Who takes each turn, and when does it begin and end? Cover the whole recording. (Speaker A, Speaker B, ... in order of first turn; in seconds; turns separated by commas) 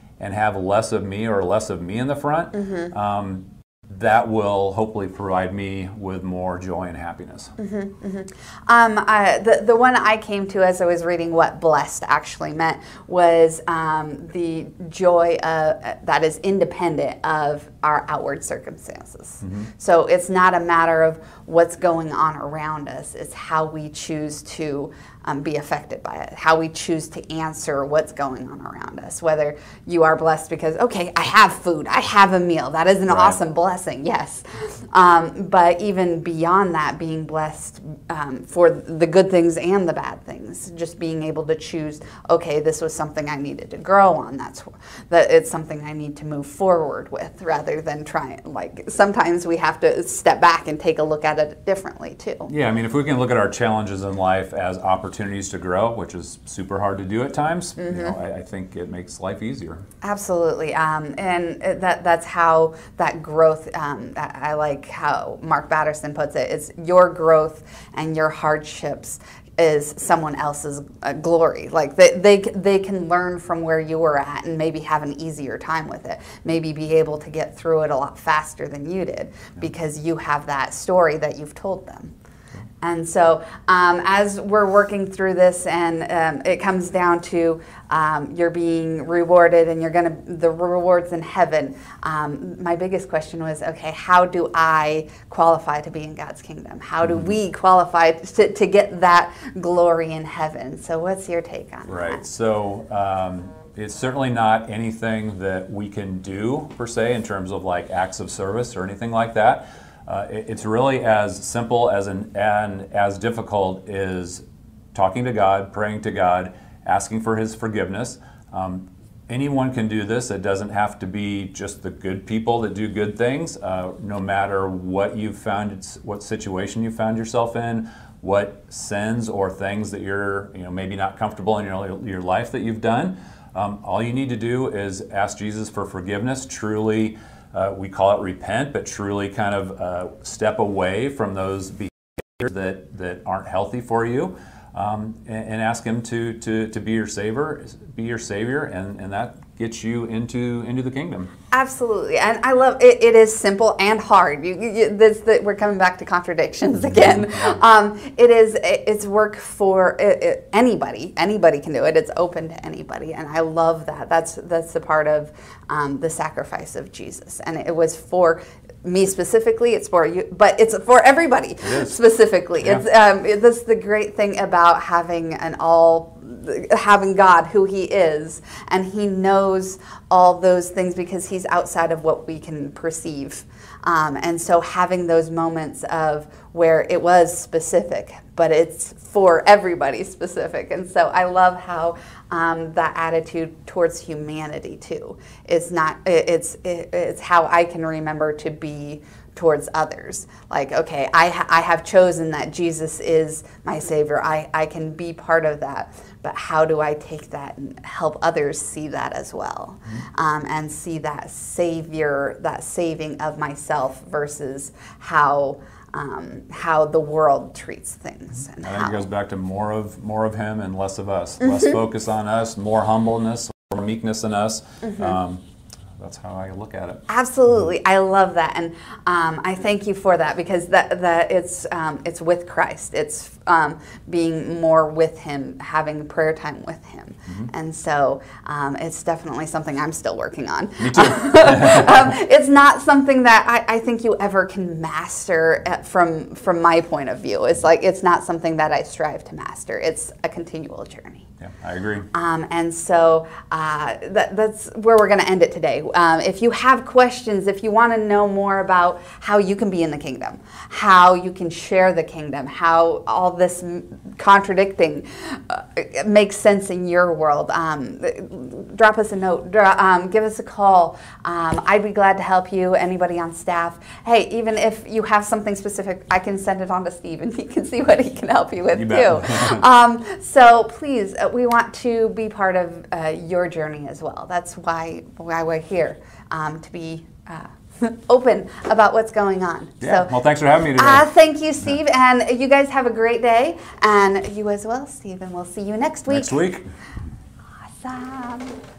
Speaker A: 0.2-7.5, Speaker B: 2.5-2.9, Speaker B: 7.6-52.5, Speaker A: 19.4-19.7, Speaker A: 52.5-59.8, Speaker B: 57.8-58.2, Speaker B: 60.0-82.1, Speaker B: 82.8-102.2, Speaker A: 97.0-97.3, Speaker A: 101.9-151.3, Speaker B: 151.5-219.1, Speaker A: 171.6-171.9, Speaker A: 218.6-225.4, Speaker B: 221.4-221.8, Speaker B: 224.8-225.2, Speaker A: 226.0-227.0, Speaker B: 227.1-251.3, Speaker A: 240.8-242.1, Speaker A: 251.4-252.1, Speaker B: 252.1-290.1, Speaker A: 278.7-279.6, Speaker A: 289.8-291.1, Speaker B: 290.7-296.4, Speaker A: 296.1-296.6, Speaker B: 297.6-298.6